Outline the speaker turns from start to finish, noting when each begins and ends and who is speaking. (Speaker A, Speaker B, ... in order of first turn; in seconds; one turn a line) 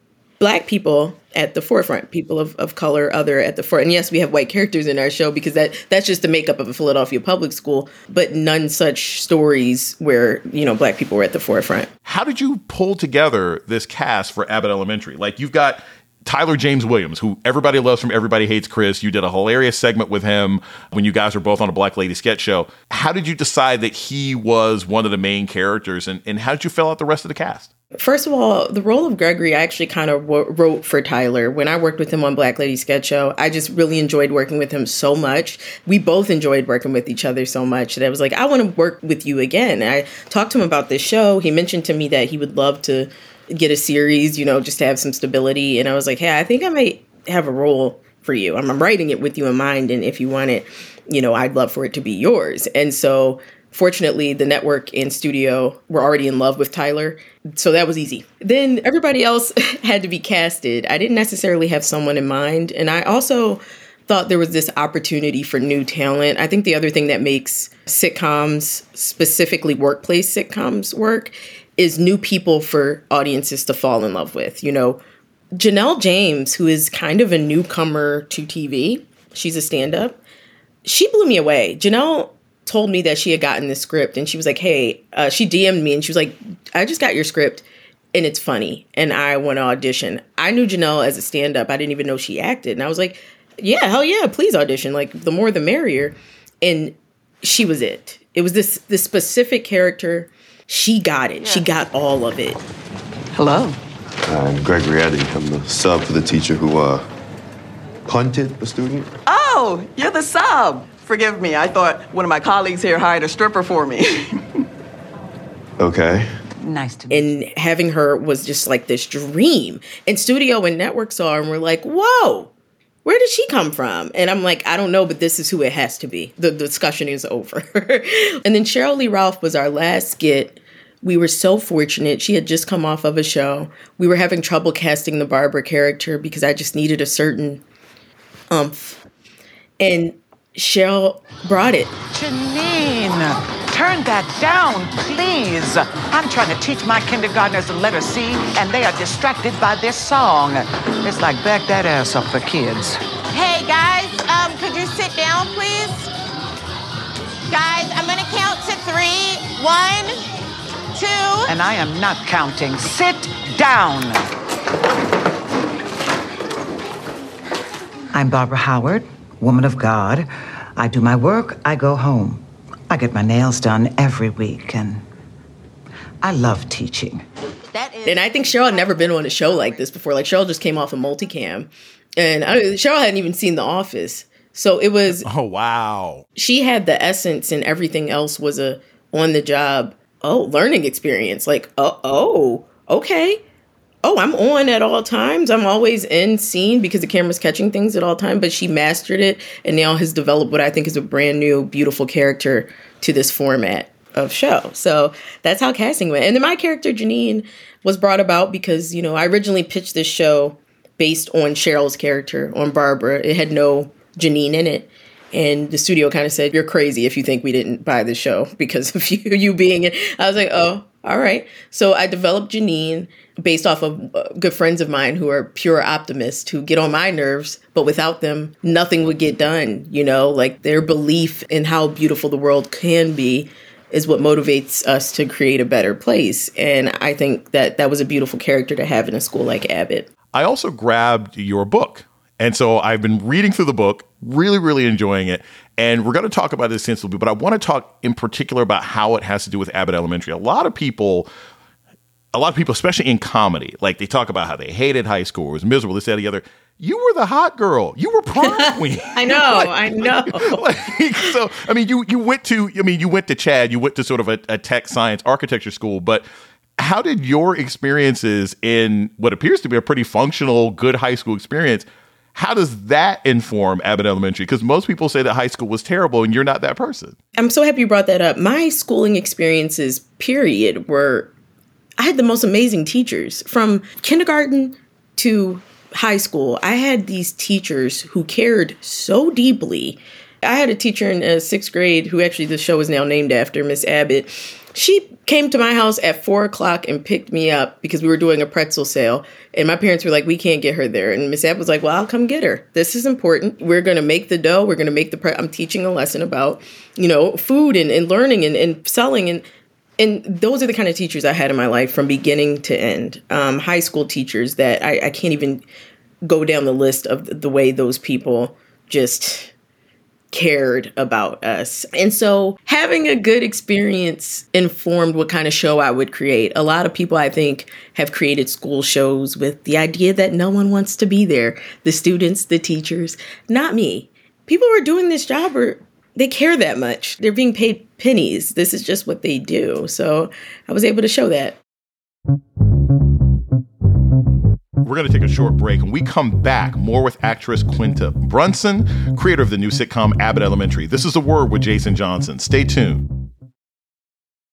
Speaker A: 0.4-11.9
Speaker B: 12.1-27.7
Speaker A: 27.9-75.0
Speaker A: 75.5-80.2
Speaker A: 80.8-102.6
Speaker C: 103.3-103.8
Speaker D: 104.2-107.0
Speaker D: 108.0-109.1
Speaker C: 109.2-114.3
Speaker D: 115.8-116.3
Speaker E: 116.6-117.3
Speaker A: 117.1-122.5
Speaker A: 123.0-137.6
Speaker A: 138.5-139.0
Speaker A: 139.8-141.9
Speaker E: 142.1-153.0
Speaker F: 153.3-156.1
Speaker F: 157.5-160.2
Speaker F: 160.9-161.5
Speaker E: 161.5-164.3
Speaker E: 168.1-175.0
Speaker E: 176.2-177.2
Speaker F: 177.7-179.8
Speaker A: 178.0-185.3
Speaker B: 185.1-186.2
Speaker A: 186.3-193.4
Speaker A: 194.0-240.1
Speaker B: 240.3-251.3
Speaker B: 252.3-266.2
Speaker A: 259.1-260.6
Speaker B: 266.8-277.1
Speaker A: 277.4-281.3
Speaker A: 282.0-309.4
Speaker A: 310.0-315.6
Speaker A: 316.2-319.5
Speaker A: 320.3-341.6
Speaker B: 344.8-353.1